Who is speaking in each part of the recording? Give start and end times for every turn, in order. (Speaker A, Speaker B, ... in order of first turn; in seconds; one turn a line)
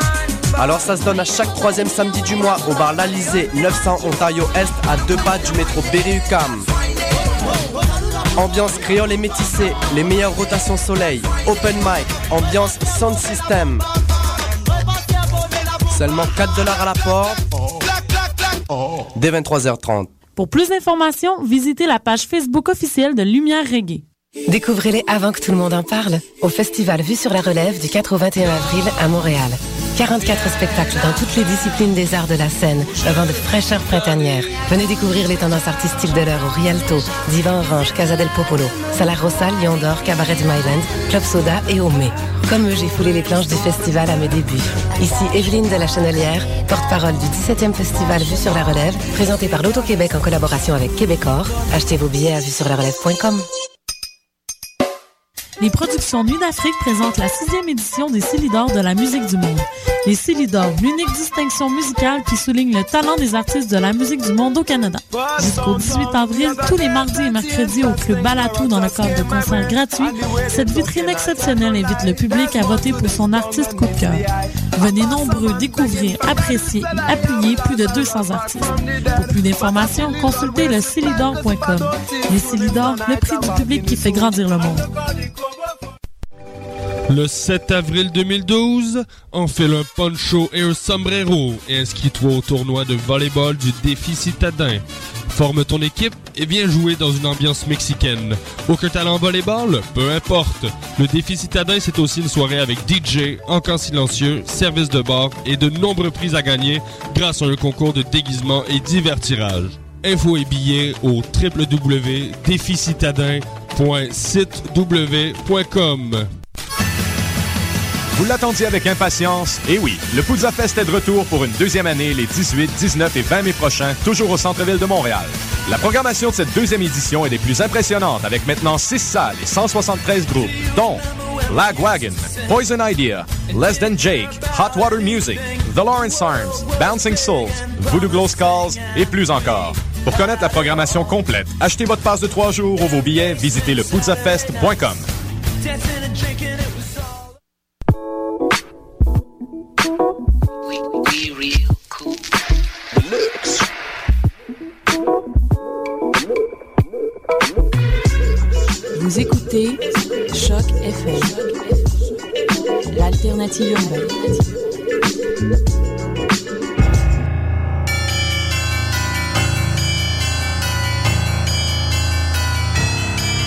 Speaker A: 0.6-6.7
Speaker A: 8.4-13.8
Speaker A: 15.9-17.4
Speaker A: 19.1-20.1
Speaker B: 20.4-24.0
Speaker C: 24.5-53.5
Speaker B: 55.6-84.9
Speaker D: 87.1-116.3
Speaker E: 118.1-145.1
Speaker F: 158.9-162.1
Speaker F: 162.9-164.6